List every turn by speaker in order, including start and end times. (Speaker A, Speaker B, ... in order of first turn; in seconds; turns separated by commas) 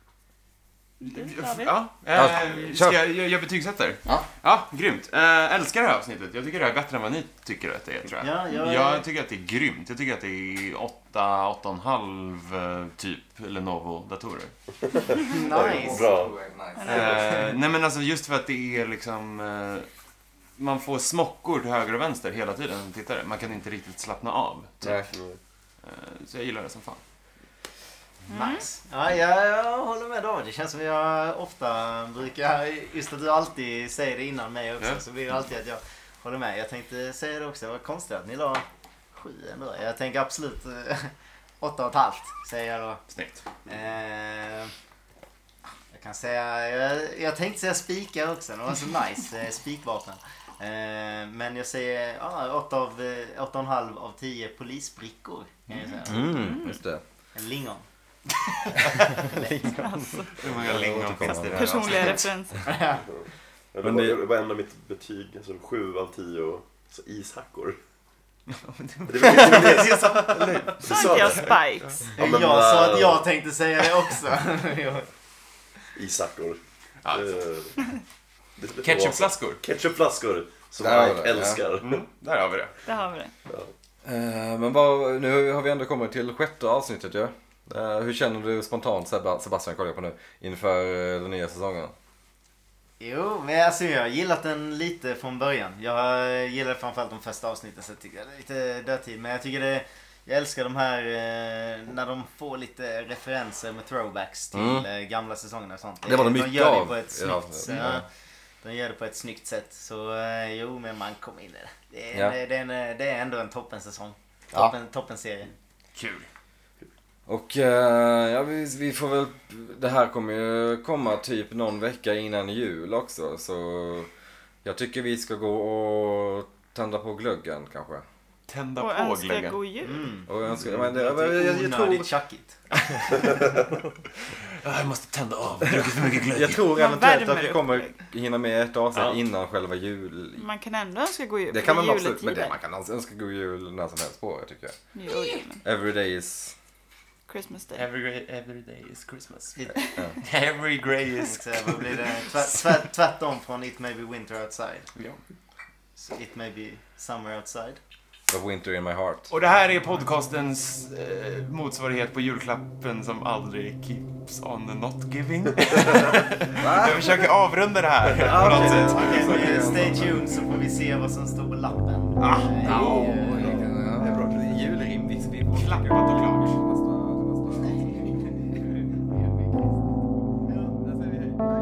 Speaker A: 1.0-1.7, Speaker B: 1.0-14.5, Speaker C: 2.1-3.0, Speaker D: 8.2-9.0, Speaker E: 14.9-16.4, Speaker D: 15.2-16.1, Speaker C: 15.4-17.3, Speaker A: 16.8-17.1, Speaker B: 16.8-19.9, Speaker B: 20.6-25.1, Speaker C: 24.8-25.1, Speaker E: 25.1-25.4, Speaker B: 25.8-27.0, Speaker A: 28.3-28.6, Speaker D: 28.3-43.0, Speaker B: 43.1-43.4, Speaker D: 43.6-44.7, Speaker D: 45.9-56.4, Speaker C: 56.0-57.0, Speaker A: 56.3-56.7, Speaker D: 57.3-59.6, Speaker C: 58.9-62.0, Speaker A: 59.6-60.4, Speaker B: 60.4-62.3, Speaker A: 61.5-62.7, Speaker D: 62.6-63.0, Speaker E: 63.1-67.8, Speaker C: 63.8-64.2, Speaker B: 68.5-72.0, Speaker E: 69.1-73.2, Speaker A: 70.8-72.1, Speaker D: 72.2-75.1, Speaker E: 75.9-76.6, Speaker B: 77.0-77.4, Speaker E: 77.1-77.8, Speaker E: 78.6-82.0, Speaker B: 78.8-79.6, Speaker C: 80.8-81.6, Speaker B: 81.8-82.8, Speaker A: 82.8-83.3, Speaker C: 84.0-91.9, Speaker D: 93.0-108.0, Speaker C: 104.5-104.9, Speaker C: 106.0-108.0, Speaker D: 108.6-115.5, Speaker B: 115.9-116.3, Speaker C: 117.3-124.1, Speaker C: 124.6-128.0, Speaker B: 128.5-129.6, Speaker A: 128.8-130.1, Speaker D: 129.8-132.7, Speaker C: 130.3-132.1, Speaker B: 134.6-136.6, Speaker C: 136.3-140.4, Speaker A: 136.7-137.9, Speaker A: 140.4-142.5, Speaker C: 141.5-144.8, Speaker A: 144.9-145.6, Speaker B: 145.1-145.4, Speaker C: 145.6-146.5, Speaker A: 147.3-147.8, Speaker B: 147.8-149.6, Speaker B: 150.2-152.4, Speaker D: 151.2-154.9, Speaker B: 154.9-155.2, Speaker D: 156.0-157.8, Speaker C: 158.3-159.3, Speaker B: 159.3-169.7, Speaker C: 166.5-167.2, Speaker C: 168.1-170.2, Speaker D: 168.9-173.6, Speaker B: 172.2-173.6, Speaker C: 172.6-178.2, Speaker B: 175.5-176.5, Speaker D: 177.6-178.6, Speaker D: 180.5-180.7